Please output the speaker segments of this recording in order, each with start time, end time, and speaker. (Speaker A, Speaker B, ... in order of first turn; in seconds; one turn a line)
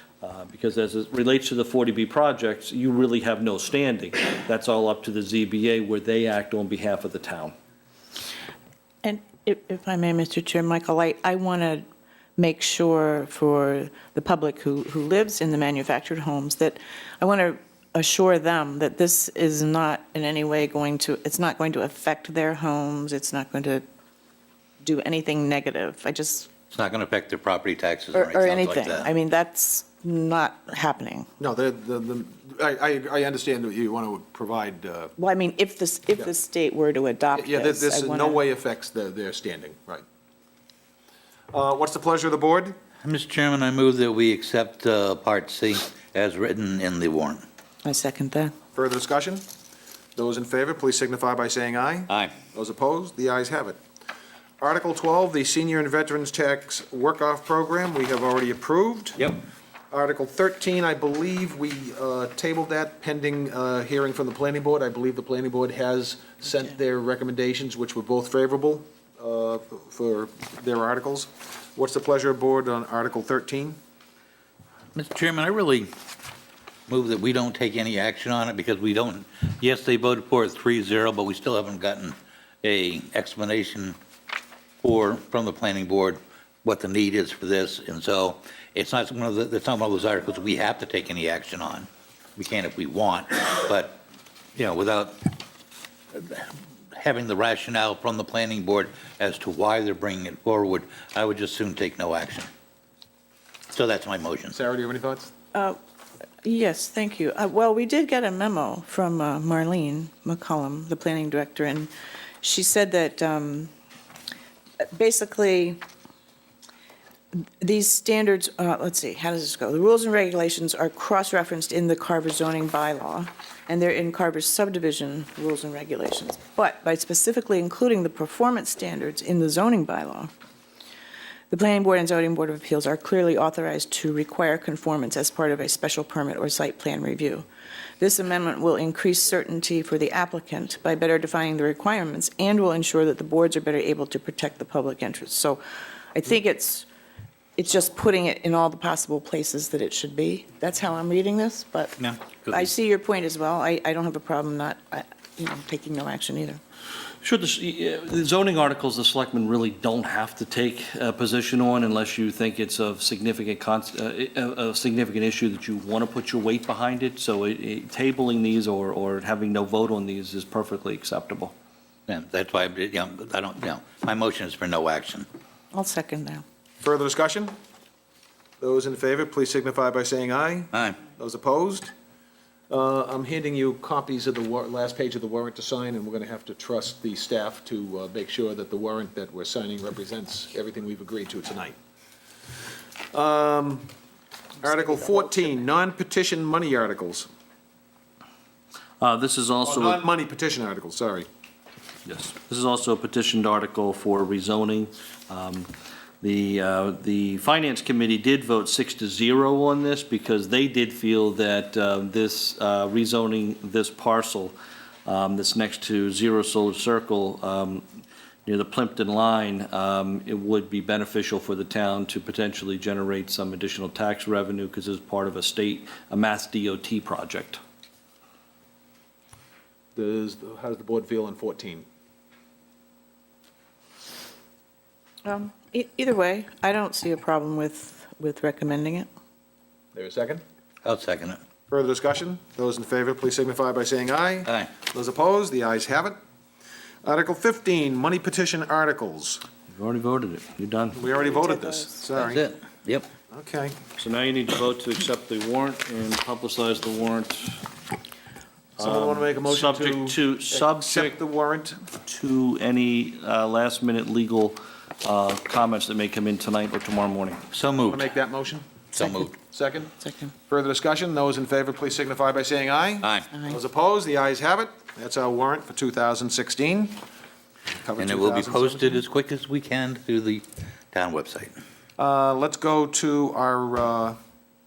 Speaker A: 0.2-7.5
Speaker B: 9.0-11.8
Speaker B: 12.4-23.9
Speaker B: 24.8-26.5
Speaker C: 26.7-29.1
Speaker B: 28.1-31.3
Speaker D: 31.4-35.1
Speaker B: 35.2-38.4
Speaker D: 37.3-40.0
Speaker D: 41.5-42.7
Speaker C: 43.0-47.4
Speaker B: 47.8-48.5
Speaker D: 48.8-49.4
Speaker D: 50.2-53.8
Speaker C: 52.1-52.4
Speaker D: 54.6-59.2
Speaker C: 59.2-59.4
Speaker D: 59.9-73.8
Speaker C: 75.0-75.9
Speaker C: 76.9-84.0
Speaker C: 84.8-94.0
Speaker C: 94.6-95.4
Speaker C: 96.1-102.5
Speaker C: 103.7-104.6
Speaker D: 104.5-105.3
Speaker B: 106.4-111.9
Speaker B: 112.4-113.7
Speaker B: 114.8-115.8
Speaker B: 117.6-130.3
Speaker B: 131.5-137.5
Speaker B: 138.0-145.6
Speaker B: 146.1-146.9
Speaker B: 147.6-152.0
Speaker C: 152.0-152.7
Speaker B: 152.5-156.6
Speaker A: 157.2-171.5
Speaker C: 172.1-175.3
Speaker B: 175.7-176.4
Speaker D: 176.8-177.6
Speaker D: 178.6-181.9
Speaker C: 180.7-181.0
Speaker D: 182.7-191.8
Speaker D: 193.1-193.9
Speaker D: 194.6-197.3
Speaker A: 199.0-200.0
Speaker D: 199.7-201.3
Speaker A: 202.1-205.7
Speaker A: 206.2-217.8
Speaker A: 218.5-227.6
Speaker D: 229.9-231.8
Speaker B: 235.2-239.1
Speaker D: 239.9-240.4
Speaker C: 240.8-241.4
Speaker D: 241.7-246.2
Speaker C: 244.5-244.7
Speaker D: 247.0-249.4
Speaker A: 249.7-251.0
Speaker D: 250.9-252.4
Speaker B: 251.1-251.9
Speaker C: 252.2-253.1
Speaker D: 253.3-253.8
Speaker A: 254.0-257.6
Speaker A: 258.8-261.2
Speaker D: 258.8-261.8
Speaker A: 262.1-267.4
Speaker C: 267.5-268.1
Speaker D: 267.9-268.7
Speaker C: 268.9-269.3
Speaker D: 269.4-269.9
Speaker B: 270.0-270.3
Speaker D: 270.5-277.0
Speaker C: 273.0-273.3
Speaker D: 277.7-279.0
Speaker C: 278.0-281.6
Speaker D: 282.0-284.2